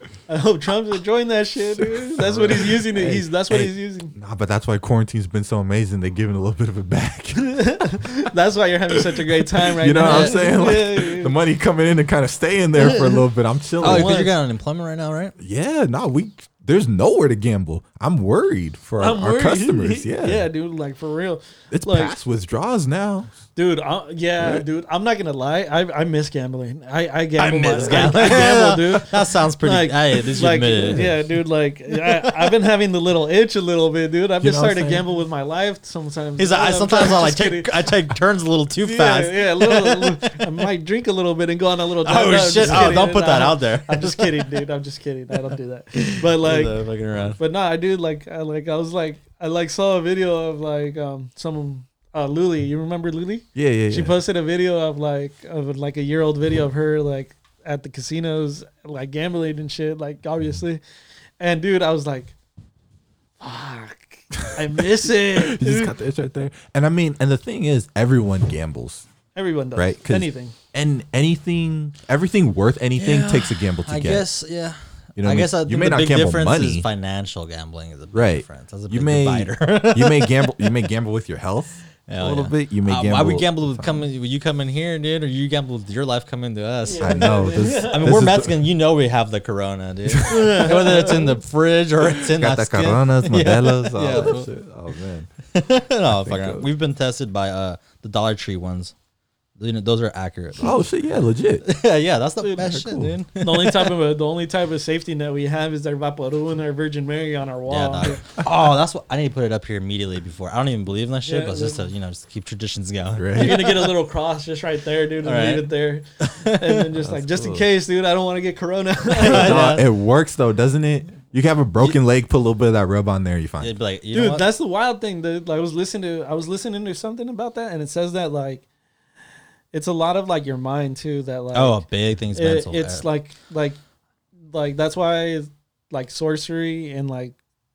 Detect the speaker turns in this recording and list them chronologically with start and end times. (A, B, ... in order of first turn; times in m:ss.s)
0:00.3-0:04.1 A
0:01.7-0:08.0 B
0:07.3-0:11.3 A
0:08.9-0:14.2 B
0:10.0-0:10.5 C
0:12.8-0:13.2 C
0:13.8-0:15.3 C
0:13.8-0:14.3 A
0:15.4-0:20.5 B
0:19.0-0:22.2 A
0:21.7-0:23.3 B
0:23.6-0:37.9 A
0:24.4-0:24.6 B
0:27.4-0:31.2 C
0:27.8-0:28.5 B
0:30.7-0:31.3 B
0:31.9-0:32.5 C
0:34.4-0:35.0 B
0:36.4-0:40.5 C
0:38.8-0:46.8 A
0:42.0-0:44.5 C
0:42.6-0:42.9 B
0:45.9-0:47.4 C
0:47.4-1:00.8 A
0:53.5-0:54.2 B
1:01.4-1:02.3 A
1:03.4-1:05.9 A
1:04.4-1:09.1 B
1:09.3-1:10.5 A
1:09.7-1:14.3 B
1:13.0-1:20.8 C
1:15.2-1:16.8 B
1:18.1-1:24.0 B
1:22.1-1:34.5 C
1:26.8-1:28.2 A
1:27.0-1:28.6 B
1:30.1-1:31.1 B
1:30.5-1:31.3 A
1:32.0-1:35.3 B
1:35.5-1:38.9 C
1:36.1-1:36.7 B
1:39.6-1:40.8 C
1:40.6-1:41.7 B
1:41.6-1:43.9 C
1:42.4-1:42.7 A
1:42.6-1:43.2 B
1:43.4-1:48.2 A
1:47.7-1:53.9 C
1:51.2-1:51.9 A
1:53.2-1:53.7 B
1:53.3-1:59.7 A
1:55.2-1:56.8 C
1:57.0-1:57.7 B
1:59.1-1:59.9 C
1:59.3-2:03.7 B
2:03.6-2:04.5 C
2:04.1-2:08.6 A
2:09.7-2:13.8 A
2:11.5-2:13.0 C
2:14.5-2:17.3 A